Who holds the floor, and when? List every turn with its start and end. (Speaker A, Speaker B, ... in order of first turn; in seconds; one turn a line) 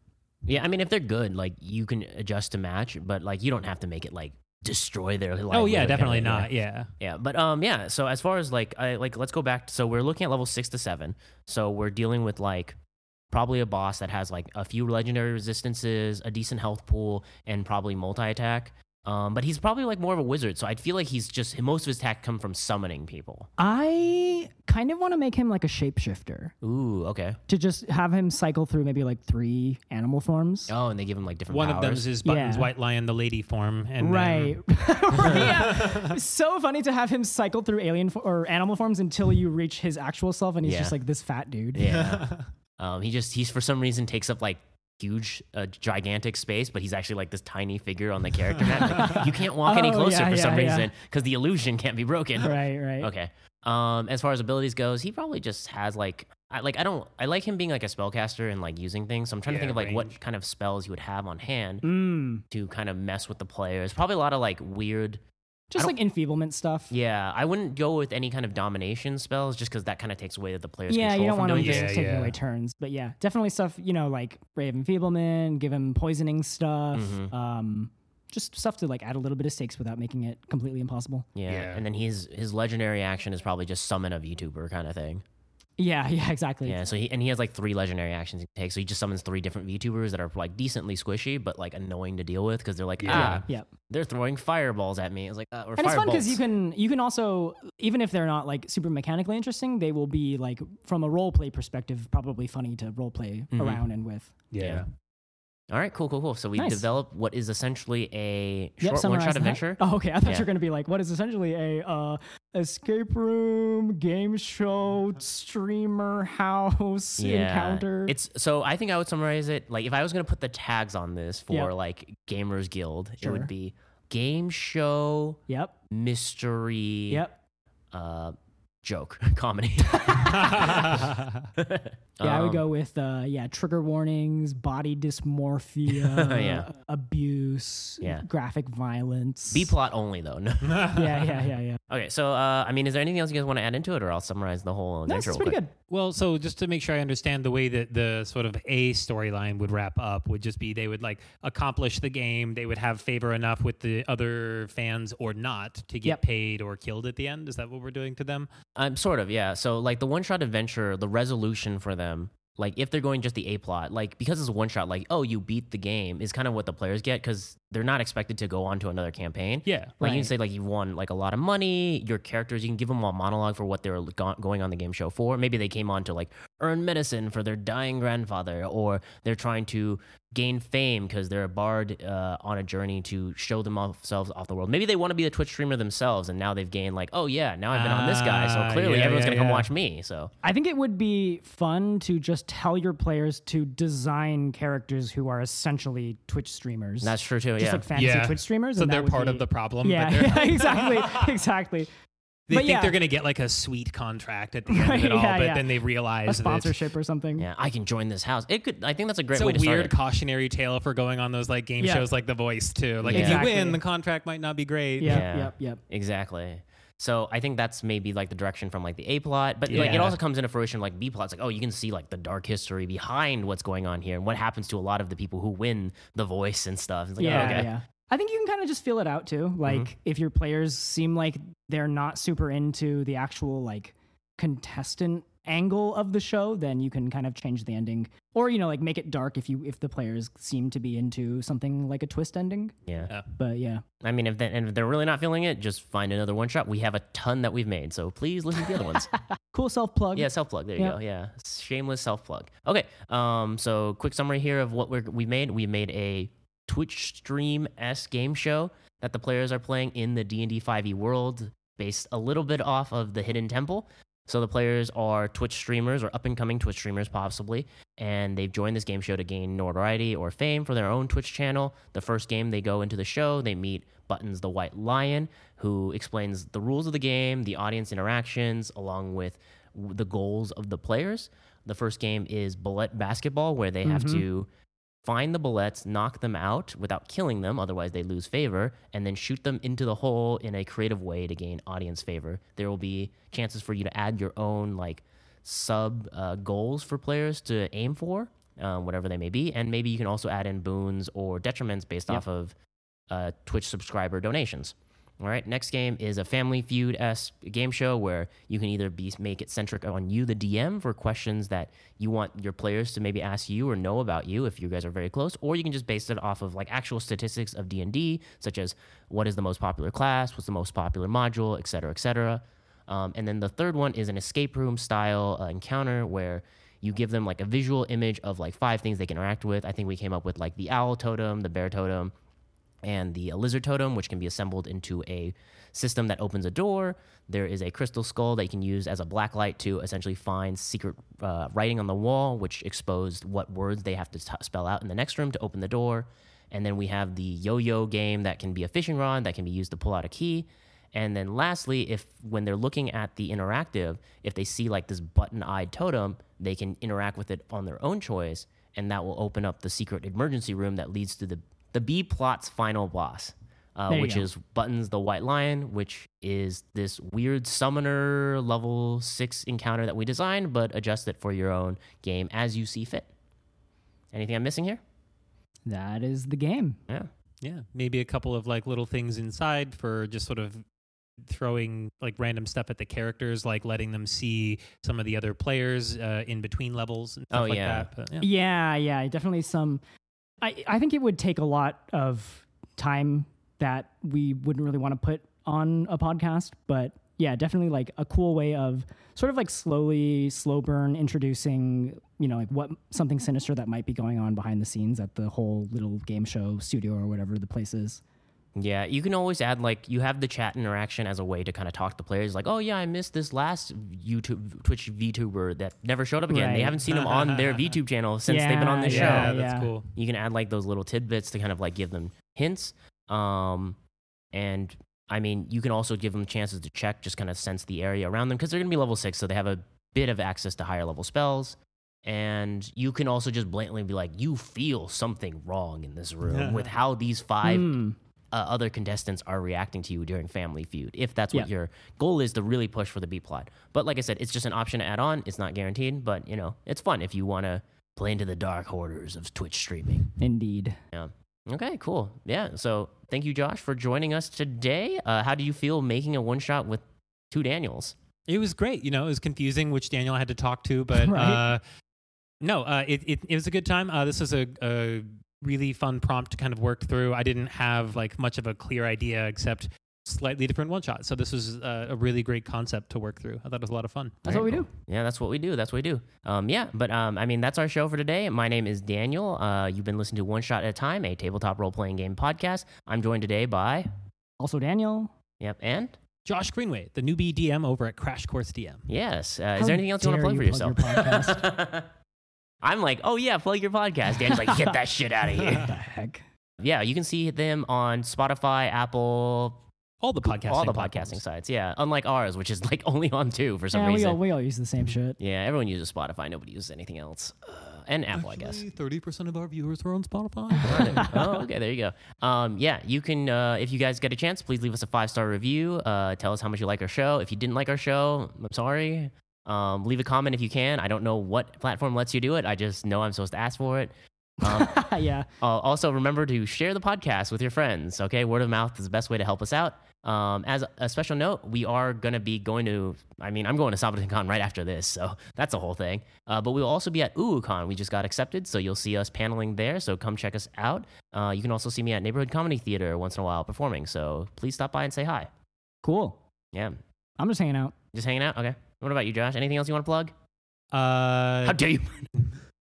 Speaker A: 0.5-12.8
Speaker B: 5.5-6.9
Speaker A: 13.3-23.5
Speaker C: 23.6-26.5
Speaker A: 26.6-27.4
Speaker C: 27.5-30.7
Speaker A: 30.7-32.1
Speaker B: 31.5-34.5
Speaker C: 32.2-32.7
Speaker C: 34.0-41.9
Speaker B: 35.3-36.2
Speaker A: 40.6-41.0
Speaker A: 41.7-61.8
Speaker B: 41.9-42.5
Speaker C: 48.7-50.9
Speaker C: 52.4-53.1
Speaker B: 59.5-60.1
Speaker C: 61.8-62.4
Speaker A: 62.5-65.2
Speaker C: 65.7-66.9
Speaker A: 66.9-72.0
Speaker C: 70.9-81.3
Speaker B: 71.5-72.3
Speaker A: 76.9-77.3
Speaker A: 81.4-85.2
Speaker B: 81.5-81.8
Speaker C: 85.8-86.8
Speaker A: 86.7-96.4
Speaker B: 93.0-93.5
Speaker C: 93.1-93.7
Speaker C: 95.8-104.3
Speaker A: 103.5-103.8
Speaker B: 104.5-104.8
Speaker A: 105.7-110.5
Speaker C: 106.6-106.8
Speaker C: 108.8-118.2
Speaker A: 117.2-125.4
Speaker C: 123.2-123.5
Speaker C: 125.5-125.7
Speaker A: 125.9-127.2
Speaker C: 127.1-127.4
Speaker A: 127.9-132.7
Speaker C: 129.9-130.9
Speaker B: 130.3-131.5
Speaker C: 132.2-139.7
Speaker A: 135.9-136.7
Speaker A: 139.5-141.3
Speaker B: 140.6-141.0
Speaker C: 140.9-141.8
Speaker A: 141.9-145.6
Speaker C: 145.1-145.7
Speaker B: 145.9-158.5
Speaker A: 158.8-190.3
Speaker B: 169.7-169.9
Speaker C: 170.0-170.3
Speaker B: 187.7-189.7
Speaker C: 190.4-201.9
Speaker A: 197.0-197.9
Speaker B: 197.9-201.3
Speaker B: 202.5-206.8
Speaker C: 202.5-203.0
Speaker C: 204.7-207.5
Speaker A: 207.4-209.9
Speaker B: 209.3-215.2
Speaker C: 211.8-212.1
Speaker A: 213.0-213.5
Speaker C: 213.1-213.8
Speaker C: 215.0-215.8
Speaker A: 215.1-227.7
Speaker B: 219.7-220.2
Speaker C: 219.7-220.0
Speaker C: 227.2-242.7
Speaker B: 227.2-227.7
Speaker C: 243.4-243.8
Speaker A: 244.0-249.1
Speaker C: 249.3-251.0
Speaker A: 250.2-284.5
Speaker C: 283.9-284.2
Speaker A: 285.0-302.6
Speaker A: 303.1-332.1
Speaker A: 332.8-373.1
Speaker C: 363.9-364.3
Speaker A: 374.1-374.8
Speaker C: 375.7-376.8
Speaker B: 377.4-380.6
Speaker B: 381.2-388.3
Speaker A: 387.3-387.9
Speaker C: 388.2-389.8
Speaker C: 390.4-408.0
Speaker A: 408.6-419.4
Speaker C: 416.3-416.8
Speaker B: 416.9-417.7
Speaker C: 418.3-419.7
Speaker B: 418.9-419.9
Speaker A: 419.9-423.8
Speaker A: 424.3-437.8
Speaker B: 436.3-436.7
Speaker C: 437.4-438.0
Speaker A: 438.3-450.1
Speaker C: 450.2-450.8
Speaker A: 450.9-458.0
Speaker B: 458.3-461.6
Speaker C: 460.9-461.5
Speaker B: 462.4-474.5
Speaker C: 474.3-474.7
Speaker A: 474.3-483.9
Speaker C: 484.4-485.1
Speaker A: 485.4-486.0
Speaker B: 486.3-488.9
Speaker A: 488.9-491.9
Speaker C: 489.6-491.5
Speaker A: 492.6-495.8
Speaker C: 494.2-494.8
Speaker C: 495.6-496.2
Speaker A: 496.6-499.6
Speaker B: 500.0-501.2
Speaker A: 500.2-504.2
Speaker C: 503.7-505.2
Speaker A: 505.2-508.6
Speaker B: 508.1-511.2
Speaker C: 510.5-511.1
Speaker A: 510.6-524.8
Speaker C: 524.4-525.3
Speaker A: 525.4-545.3
Speaker C: 545.8-546.2
Speaker A: 546.5-546.8
Speaker C: 547.2-547.7
Speaker A: 547.9-550.1
Speaker B: 550.7-551.6
Speaker A: 551.4-552.1